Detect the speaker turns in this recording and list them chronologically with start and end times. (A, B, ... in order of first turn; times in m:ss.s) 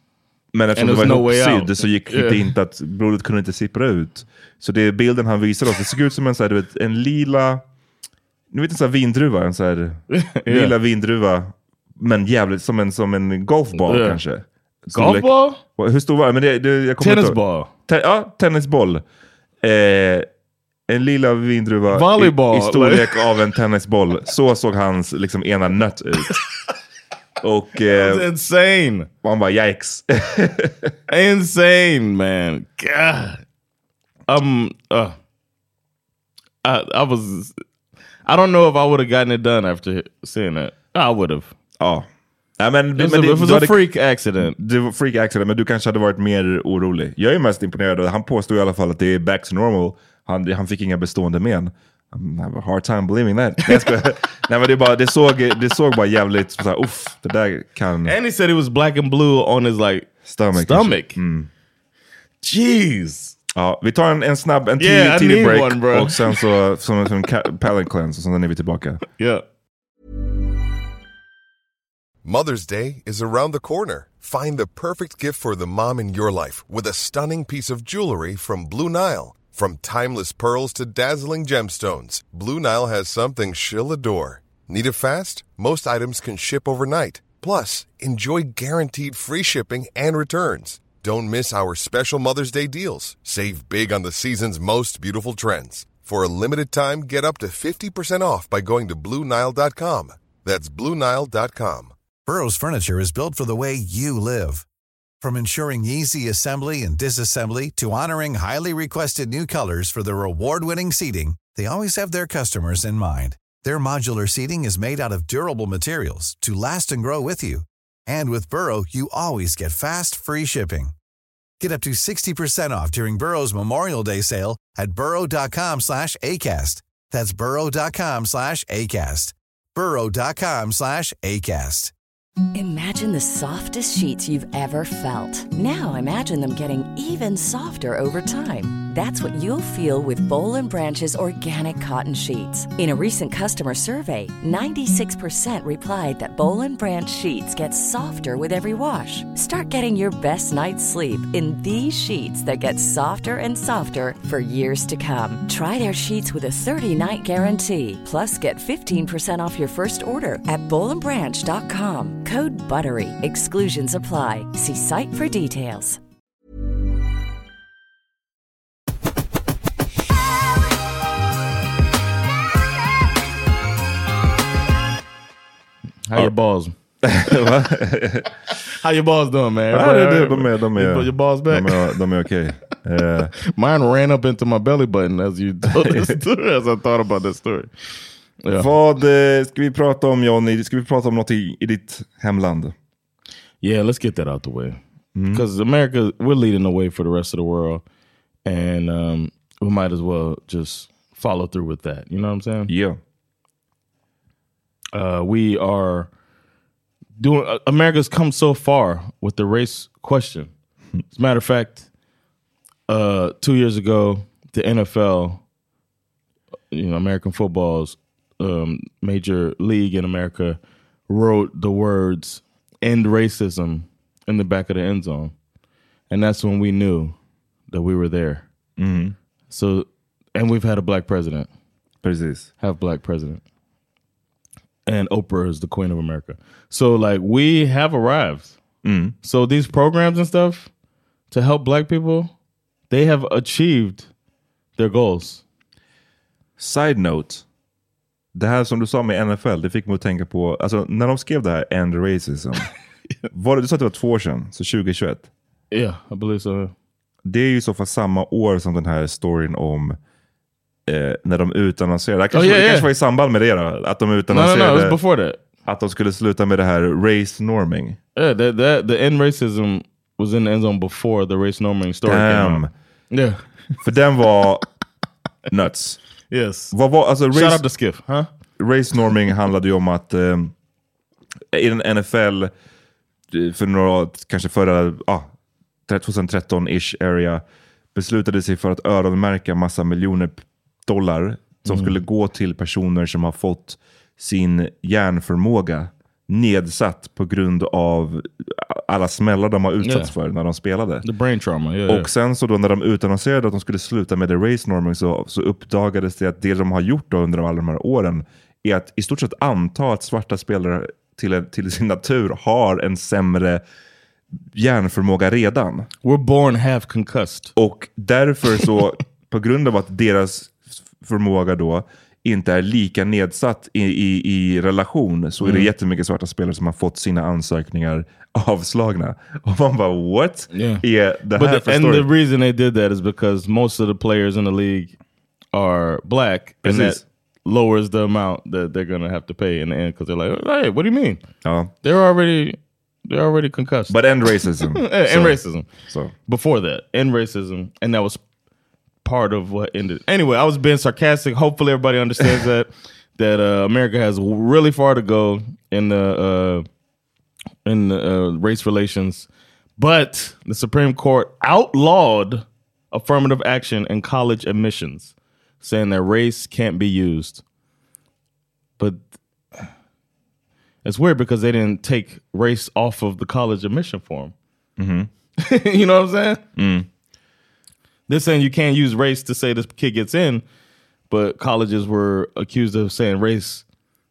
0:00.5-0:07.6 A
0:00.7-0:02.5 B
0:08.5-0:19.0 A
0:10.1-0:10.7 B
0:13.7-0:14.2 B
0:14.9-0:15.6 B
0:17.0-0:17.7 B
0:19.6-0:20.2 A
0:20.9-0:26.4 A
0:21.9-0:23.4 B
0:27.4-0:28.3 A
0:27.9-0:29.1 B
0:29.2-0:30.9 A
0:31.1-0:33.4 B
0:34.3-0:35.2 B
0:36.6-0:37.6 B
0:38.2-0:41.5 B
0:41.8-0:42.0 A
0:42.6-0:43.8 A
0:42.9-0:44.6 B
0:44.4-0:58.2 A
0:53.6-0:53.9 B
0:58.0-1:01.2 B
1:00.2-1:01.5 A
1:02.4-1:03.4 B
1:03.5-1:09.0 A
1:04.8-1:06.4 B
1:09.2-1:09.4 B
1:12.2-1:41.9 C
1:42.2-1:44.6 D
1:45.2-2:00.9 D
2:01.6-2:11.9 D
2:12.5-2:46.0 E
2:56.1-2:56.7 B
2:57.0-2:58.3 A
2:58.8-3:02.0 B
2:59.7-3:03.3 A
3:03.5-3:07.7 B
3:05.8-3:06.1 A
3:08.4-3:08.7 B
3:08.5-3:12.7 A
3:13.6-3:14.8 B
3:15.1-3:15.4 A
3:15.3-3:17.8 B
3:18.4-3:22.7 B
3:22.7-3:23.0 A
3:24.9-3:26.1 B
3:27.2-3:30.5 B
3:31.1-3:31.9 B
3:32.9-3:35.4 B
3:36.7-3:45.3 B
3:46.1-3:47.1 B
3:47.7-3:48.4 B
3:48.8-3:49.1 A
3:49.5-3:51.5 B
3:52.0-3:52.5 A
3:52.6-3:53.4 B
3:54.8-3:58.6 B
3:58.8-3:59.1 A
3:59.2-4:00.7 B
4:01.3-4:02.3 B
4:02.9-4:04.1 B
4:04.8-4:05.4 B
4:06.6-4:07.4 A
4:08.3-4:12.7 A
4:13.3-4:15.3 A
4:15.7-4:16.7 B
4:17.2-4:20.0 A
4:20.9-4:25.0 A
4:22.3-4:22.9 B
4:24.3-4:25.4 B
4:25.6-4:28.0 A
4:28.2-4:33.6 B
4:32.0-4:32.7 A
4:33.8-4:34.7 A
4:35.5-4:36.0 A
4:36.3-4:36.7 B
4:36.7-4:37.7 A
4:37.3-4:38.3 B
4:38.6-4:40.5 A
4:41.5-4:42.5 A
4:43.3-4:45.3 A
4:45.9-4:47.4 A
4:47.9-5:01.0 A
4:51.6-4:51.9 B
4:59.8-5:00.1 B
5:01.0-5:02.1 B
5:01.9-5:13.6 A
5:14.5-5:15.9 A
5:16.0-5:17.5 B
5:17.6-5:32.1 A
5:25.4-5:25.7 B
5:30.5-5:34.9 B
5:35.5-5:41.2 B
5:36.6-5:37.0 A
5:41.4-5:41.7 A
5:41.8-5:44.0 B
5:43.9-5:46.1 A
5:44.7-5:45.7 B
5:46.3-5:48.2 B
5:49.0-5:56.6 B
5:57.6-6:07.4 B
6:08.8-6:09.0 B
6:10.8-6:14.3 B
6:14.8-6:15.1 A
6:15.4-6:16.4 B
6:16.6-6:16.9 A
6:18.1-6:20.4 B
6:21.1-6:23.6 B